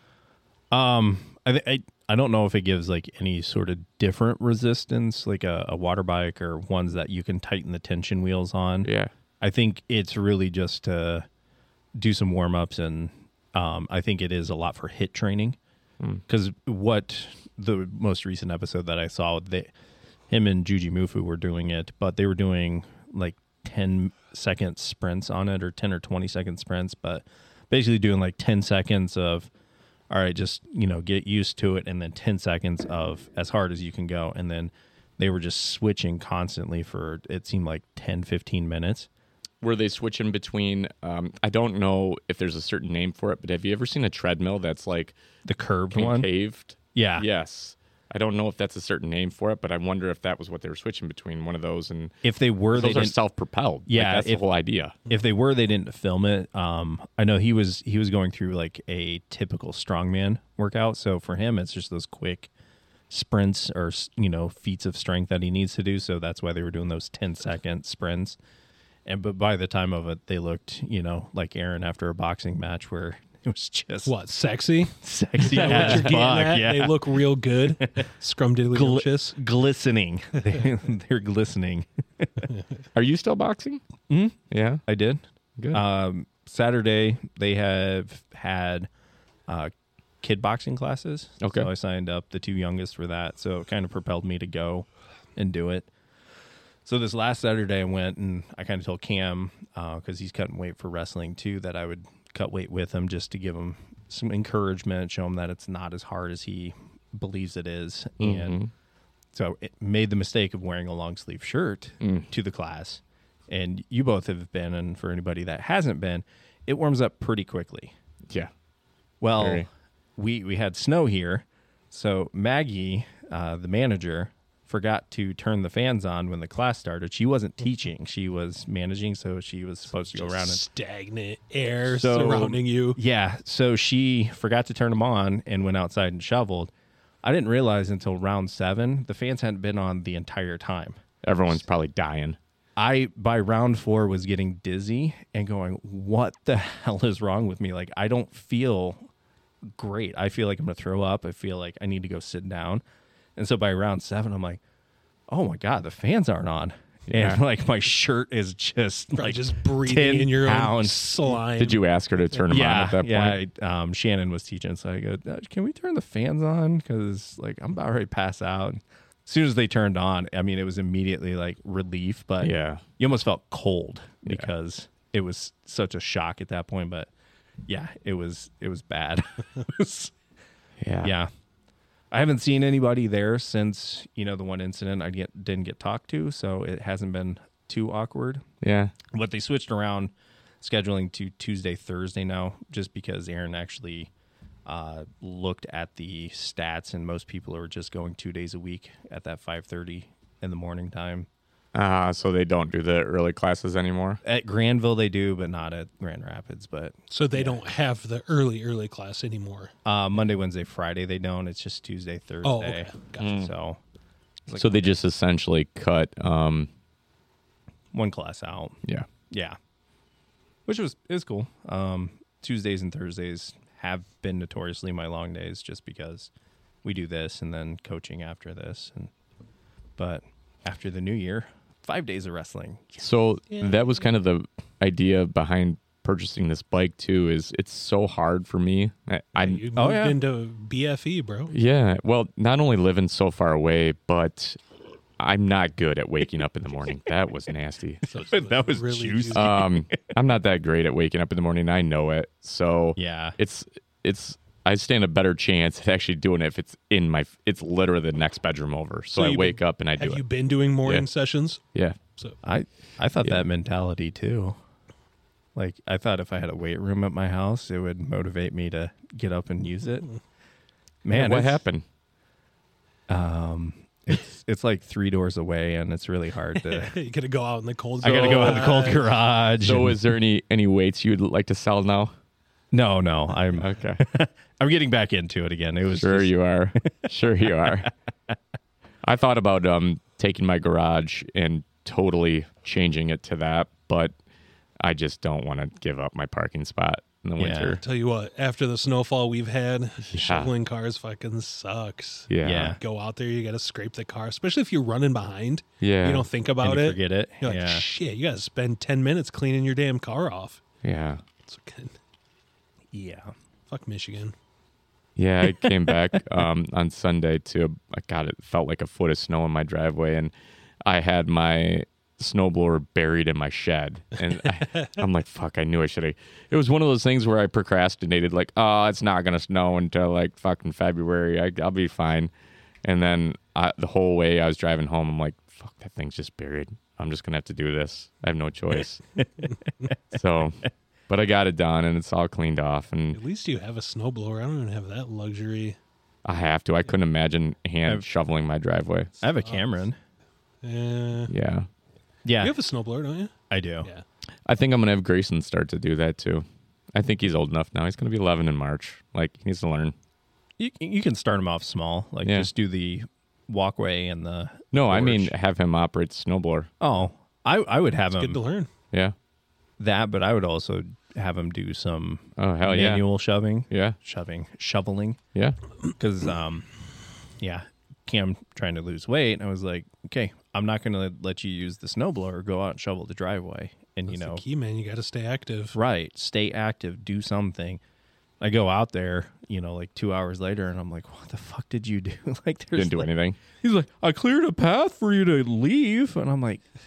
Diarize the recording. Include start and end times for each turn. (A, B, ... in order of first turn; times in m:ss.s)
0:00.7-0:08.9 A
0:08.8-0:09.1 B
0:09.4-0:11.2 A
0:12.0-0:15.6 A
0:16.3-0:19.7 A
0:20.3-0:29.5 A
0:30.1-0:39.1 A
0:39.6-0:45.2 B
0:45.4-0:46.3 A
0:45.9-0:52.1 B
0:46.9-0:47.3 A
0:52.2-0:53.1 A
0:52.7-0:54.9 B
0:53.9-0:54.4 A
0:55.1-1:02.5 A
1:03.1-1:08.4 A
1:09.0-1:14.1 A
1:14.0-1:19.4 C
1:14.9-1:17.2 A
1:17.8-1:18.0 A
1:18.7-1:22.5 A
1:22.9-1:23.8 B
1:24.1-1:28.9 A
1:24.5-1:24.8 B
1:25.6-1:25.8 B
1:30.2-1:35.9 A
1:31.4-1:31.7 B
1:36.8-1:48.6 A
1:48.2-1:48.7 B
1:49.3-1:57.9 A
1:52.0-1:52.3 B
1:59.2-2:10.6 A
1:59.4-1:59.7 B
2:10.1-2:13.0 C
2:11.8-2:16.7 A
2:17.2-2:21.0 A
2:21.2-2:22.4 B
2:22.8-2:29.1 A
2:29.6-2:32.8 A
2:33.4-2:34.6 A
2:35.3-2:41.0 A
2:37.1-2:37.4 B
2:39.1-2:41.8 C
2:41.6-2:43.4 B
2:42.5-2:57.1 A
2:52.4-2:52.8 B
2:57.7-3:00.1 A
3:00.8-3:01.1 B
3:01.0-3:01.3 A
3:02.1-3:08.4 A
3:08.6-3:08.9 B
3:09.1-3:14.1 A
3:14.6-3:21.3 A
3:21.7-3:24.2 B
3:24.2-3:27.6 A
3:27.1-3:29.7 C
3:29.8-3:33.8 A
3:32.4-3:33.4 C
3:33.2-3:33.5 B
3:34.5-3:35.0 A
3:34.5-3:36.7 B
3:37.9-3:38.8 A
3:39.3-3:39.6 A
3:40.6-3:46.3 A
3:46.8-3:49.1 A
3:50.0-3:53.0 A
3:53.0-3:59.6 B
3:53.5-3:53.9 C
3:59.4-4:01.5 C
3:59.8-4:00.2 A
4:01.5-4:04.6 B
4:05.2-4:08.0 B
4:08.1-4:09.5 C
4:08.1-4:09.8 A
4:09.3-4:20.2 B
4:13.0-4:13.4 A
4:19.2-4:21.6 C
4:22.4-4:24.6 A
4:25.5-4:30.0 A
4:31.0-4:31.6 A
4:31.1-4:31.8 B
4:33.1-4:36.9 A
4:36.6-4:39.1 C
4:38.0-4:40.0 A
4:38.0-4:38.8 B
4:39.6-4:42.1 B
4:42.7-4:46.3 A
4:43.6-4:44.0 B
4:45.9-4:47.9 B
4:46.8-4:47.9 A
4:49.0-4:54.1 B
4:54.8-4:57.8 B
4:57.4-4:57.8 A
4:57.8-5:10.6 C
5:00.1-5:00.5 B
5:02.3-5:02.8 B
5:02.4-5:02.8 A
5:05.8-5:06.3 B
5:06.6-5:07.8 A
5:10.8-5:11.2 B
5:11.4-5:11.9 C
5:12.9-5:13.3 A
5:13.7-5:14.3 C
5:15.2-5:20.3 B
5:20.8-5:32.3 B
5:32.8-5:39.0 B
5:40.1-5:43.2 B
5:43.1-5:45.8 C
5:46.2-5:49.1 B
5:49.2-5:50.0 A
5:49.4-5:49.6 C
5:50.6-5:51.3 C
5:51.3-5:51.7 B
5:52.2-5:52.5 A
5:52.4-5:53.3 C
5:53.5-5:53.9 A
5:54.4-5:59.9 B
6:00.6-6:05.3 A
6:02.2-6:02.5 B
6:04.7-6:06.7 B
6:06.8-6:08.4 A
6:08.1-6:08.7 C
6:09.8-6:15.2 A
6:12.4-6:13.1 B
6:13.7-6:14.0 B
6:16.0-6:16.7 A
6:17.4-6:24.4 A
6:24.1-6:25.8 C
6:25.7-6:27.8 A
6:28.4-6:36.6 A
6:32.7-6:33.4 B